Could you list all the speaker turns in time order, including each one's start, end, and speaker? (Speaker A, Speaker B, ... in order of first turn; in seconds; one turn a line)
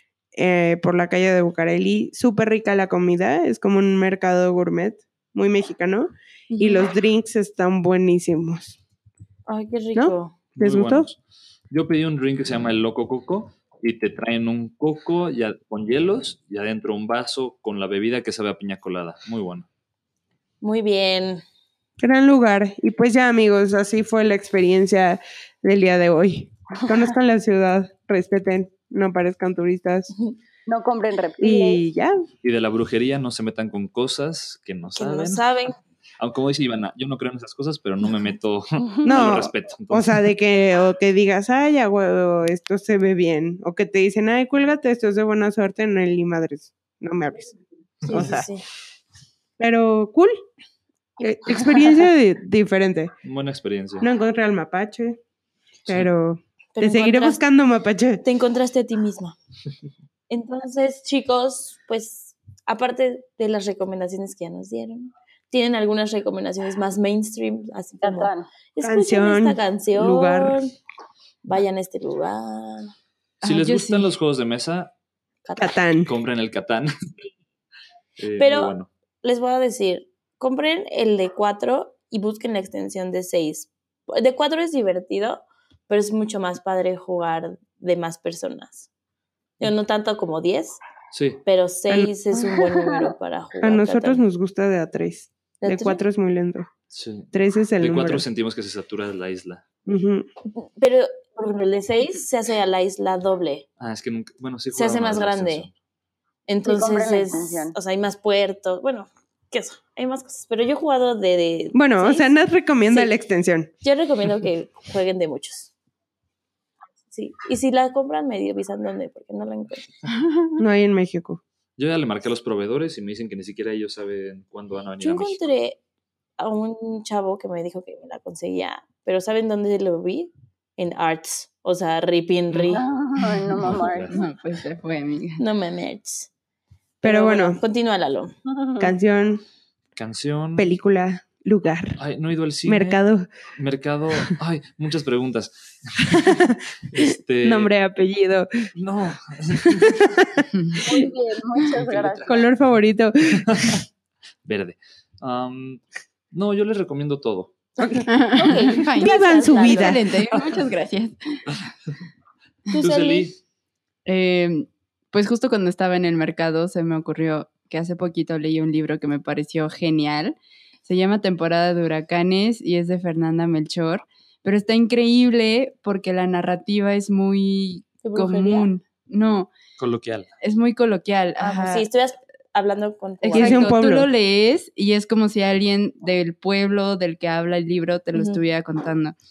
Speaker A: 0.3-8.8
Speaker B: 6.5-6.9
Speaker B: 9.5-10.4
Speaker A: 9.9-11.1
Speaker C: 10.6-11.2
Speaker C: 11.7-19.7
Speaker B: 20.6-21.4
Speaker A: 22.0-30.1
Speaker D: 30.7-31.8
Speaker A: 31.4-32.1
Speaker C: 32.4-35.4
Speaker B: 35.0-35.8
Speaker C: 36.2-40.2
Speaker D: 38.8-39.2
Speaker A: 39.0-48.5
Speaker B: 48.1-48.6
Speaker A: 49.6-50.4
Speaker A: 51.2-53.1
Speaker C: 53.2-54.1
Speaker A: 54.0-55.2
Speaker A: 55.9-58.2
Speaker B: 56.8-57.4
Speaker B: 58.2-59.4
Speaker B: 60.3-70.7
Speaker D: 68.0-68.5
Speaker A: 68.8-70.6
Speaker B: 71.4-72.9
Speaker E: 73.4-74.1
Speaker C: 73.4-74.9
Speaker B: 75.5-75.8
Speaker A: 75.6-76.1
Speaker C: 76.1-76.9
Speaker C: 78.2-78.9
Speaker B: 78.4-88.9
Speaker B: 89.6-90.8
Speaker C: 91.1-91.4
Speaker B: 91.5-94.2
Speaker D: 92.3-93.1
Speaker A: 93.6-96.7
Speaker B: 95.6-96.0
Speaker C: 96.9-99.7
Speaker A: 97.3-98.2
Speaker A: 99.9-100.3
Speaker B: 100.6-103.7
Speaker C: 103.8-105.7
Speaker B: 104.7-105.7
Speaker B: 106.5-112.3
Speaker D: 106.7-107.8
Speaker A: 111.7-113.7
Speaker B: 113.8-115.7
Speaker B: 117.1-119.9
Speaker A: 120.6-121.4
Speaker C: 121.8-125.4
Speaker B: 125.0-125.8
Speaker B: 126.4-132.9
Speaker D: 132.6-134.2
Speaker C: 133.6-134.2
Speaker E: 134.1-135.4
Speaker B: 135.4-136.3
Speaker B: 137.0-138.3
Speaker A: 137.0-137.6
Speaker D: 138.5-138.9
Speaker A: 138.8-139.4
Speaker C: 140.0-140.7
Speaker A: 140.6-142.0
Speaker C: 142.0-143.0
Speaker A: 142.7-143.3
Speaker C: 143.6-147.7
Speaker A: 146.1-148.5
Speaker C: 148.8-150.0
Speaker A: 149.6-150.3
Speaker E: 150.5-150.8
Speaker D: 150.8-152.3
Speaker C: 151.7-152.5
Speaker A: 152.3-153.8
Speaker C: 153.5-153.8
Speaker C: 154.4-157.5
Speaker B: 157.8-160.0
Speaker E: 158.1-161.4
Speaker A: 159.0-160.0
Speaker B: 162.7-163.3
Speaker C: 162.8-163.4
Speaker E: 164.1-179.5
Speaker B: 178.0-178.7
Speaker C: 179.8-180.3
Speaker E: 180.4-181.9
Speaker B: 181.4-183.7
Speaker E: 183.2-189.1
Speaker A: 183.3-184.1
Speaker B: 188.2-188.4